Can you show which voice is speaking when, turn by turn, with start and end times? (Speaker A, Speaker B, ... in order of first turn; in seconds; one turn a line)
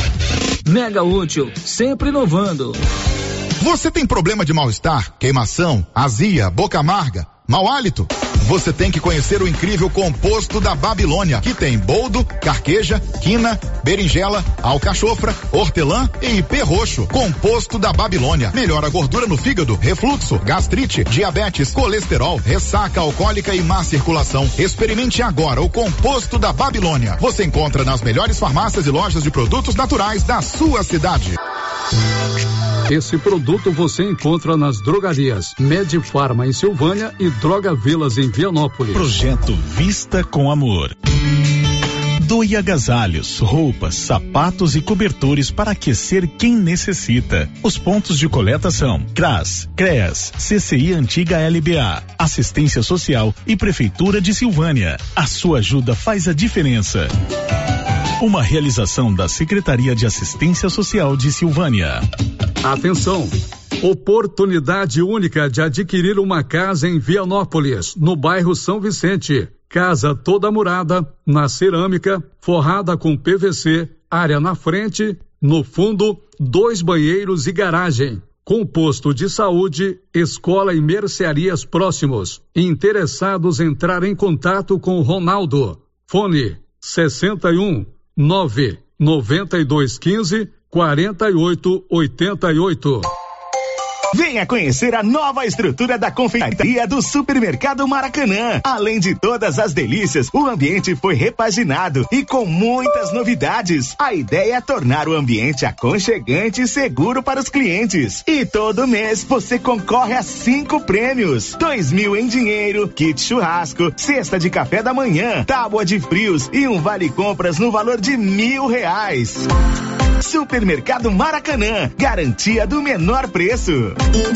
Speaker A: 0.7-2.8
Speaker B: 3.6-31.3
Speaker C: 32.9-39.1
Speaker D: 39.0-40.9
Speaker D: 42.2-57.1
Speaker D: 61.4-62.0
Speaker C: 62.6-93.1
Speaker E: 94.1-119.4
Speaker E: 120.2-123.9